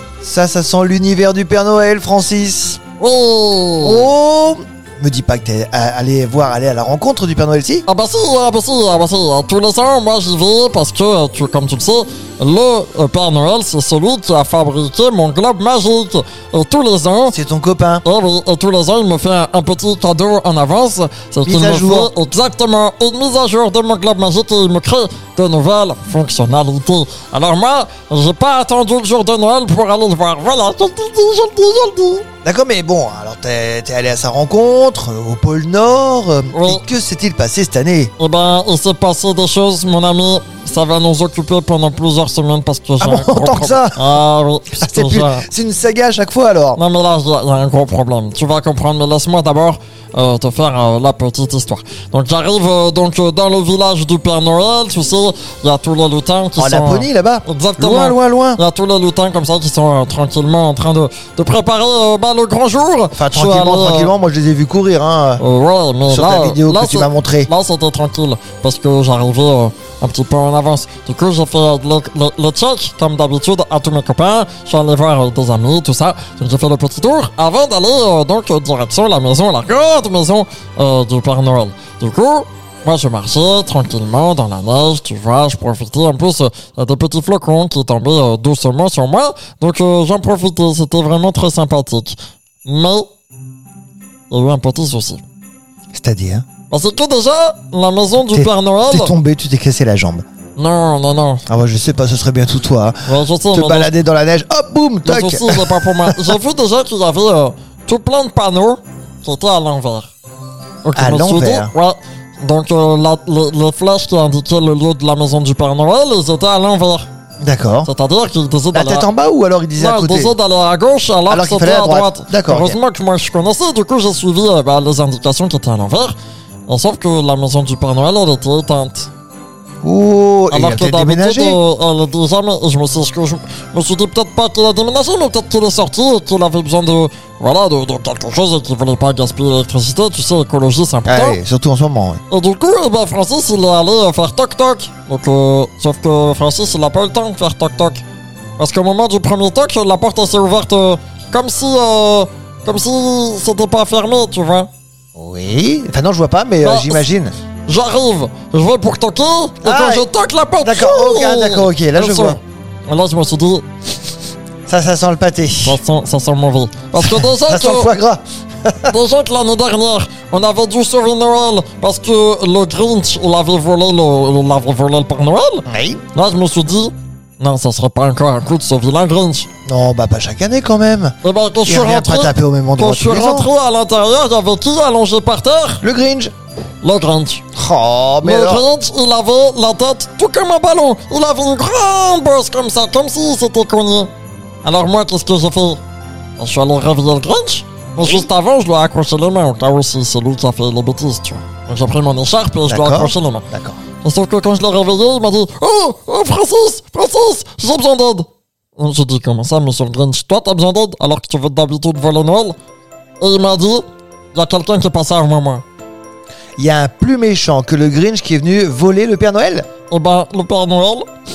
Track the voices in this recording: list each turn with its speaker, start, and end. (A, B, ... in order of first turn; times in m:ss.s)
0:00.2-0:02.8 A
0:03.0-0:04.0 B
0:03.8-0:07.8 A
0:07.9-0:17.4 B
0:17.3-0:18.0 A
0:18.0-0:32.2 B
0:21.4-0:22.1 A
0:32.4-0:38.1 A
0:36.5-0:36.8 B
0:38.2-0:45.4 B
0:43.0-0:44.1 A
0:44.7-0:46.8 A
0:46.8-1:04.1 B
0:56.6-0:58.6 A
1:03.1-1:05.4 A
1:05.4-1:33.1 B
1:06.1-1:07.5 A
1:34.3-1:35.2 B
1:35.9-1:36.4 A
1:36.7-1:39.1 B
1:38.3-1:40.2 A
1:40.6-1:41.4 B
1:41.5-1:46.4 A
1:43.0-1:43.9 B
1:45.0-1:50.1 B
1:50.8-1:57.1 B
1:51.0-1:51.7 A
1:57.4-1:57.9 A
1:57.8-1:59.0 B
1:58.7-2:00.4 A
1:59.8-2:06.1 B
2:01.3-2:02.8 A
2:06.7-2:09.1 B
2:09.8-2:11.6 A
2:10.5-2:21.4 B
2:21.0-2:22.2 A
2:22.3-2:28.0 B
2:28.6-2:34.7 B
2:35.1-2:37.3 A
2:36.6-2:37.0 B
2:37.7-2:43.6 B
2:39.6-2:40.1 A
2:40.6-2:42.4 A
2:44.7-2:45.8 A
2:45.6-2:47.9 B
2:46.9-2:49.0 A
2:48.9-2:59.5 B
2:55.7-2:56.0 A
2:59.6-3:01.1 A
3:01.2-3:05.8 B
3:01.6-3:03.5 A
3:05.8-3:06.3 A
3:06.8-3:07.4 B
3:07.5-3:08.6 A
3:08.2-3:14.1 B
3:14.6-3:15.8 B
3:16.4-3:23.5 B
3:22.7-3:23.8 A
3:24.0-3:32.6 B
3:33.2-3:35.6 B
3:36.6-3:39.7 A
3:39.9-3:41.1 B